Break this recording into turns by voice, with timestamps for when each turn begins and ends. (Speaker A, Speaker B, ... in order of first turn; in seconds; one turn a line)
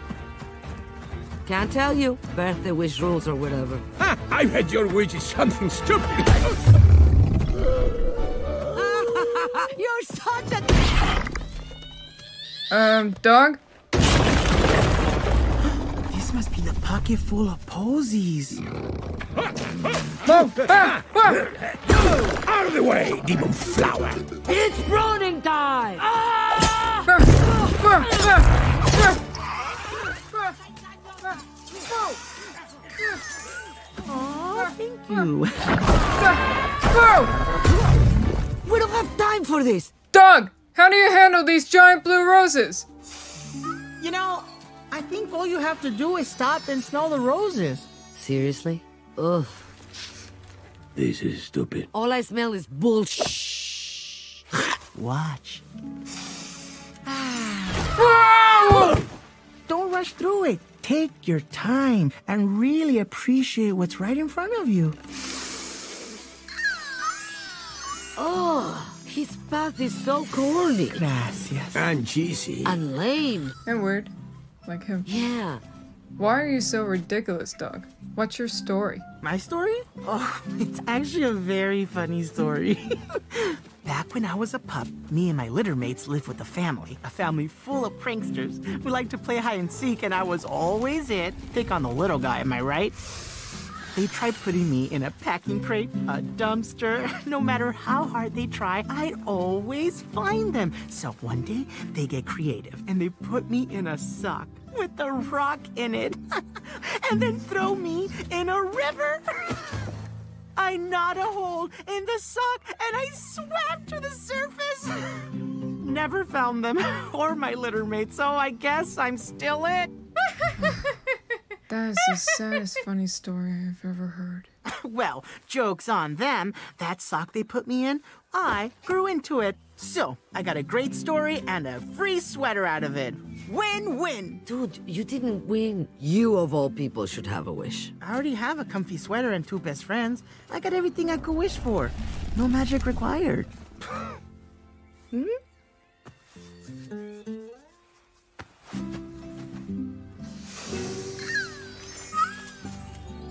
Speaker A: 1.4-3.8
Speaker B: 4.0-6.5
Speaker A: 8.7-10.9
Speaker C: 12.7-13.6
Speaker D: 16.1-18.6
Speaker B: 20.1-24.3
Speaker C: 20.2-21.4
Speaker A: 24.4-26.7
Speaker C: 27.1-28.3
Speaker A: 28.0-28.4
Speaker D: 34.0-35.8
Speaker C: 36.9-37.3
Speaker A: 38.6-39.9
Speaker C: 40.1-42.9
Speaker D: 44.0-47.9
Speaker A: 48.1-49.7
Speaker B: 51.0-51.9
Speaker A: 51.9-54.1
Speaker D: 54.9-55.6
Speaker D: 57.0-59.0
Speaker D: 59.7-65.0
Speaker A: 68.2-71.0
Speaker D: 70.9-71.8
Speaker B: 71.7-72.8
Speaker A: 72.6-73.5
Speaker C: 73.7-74.1
Speaker C: 74.7-75.1
Speaker A: 75.0-75.6
Speaker C: 76.2-79.0
Speaker D: 79.2-93.0
Speaker D: 93.9-109.6
Speaker D: 110.6-119.9
Speaker C: 121.7-124.5
Speaker D: 124.7-134.4
Speaker A: 134.5-137.9
Speaker D: 138.0-143.5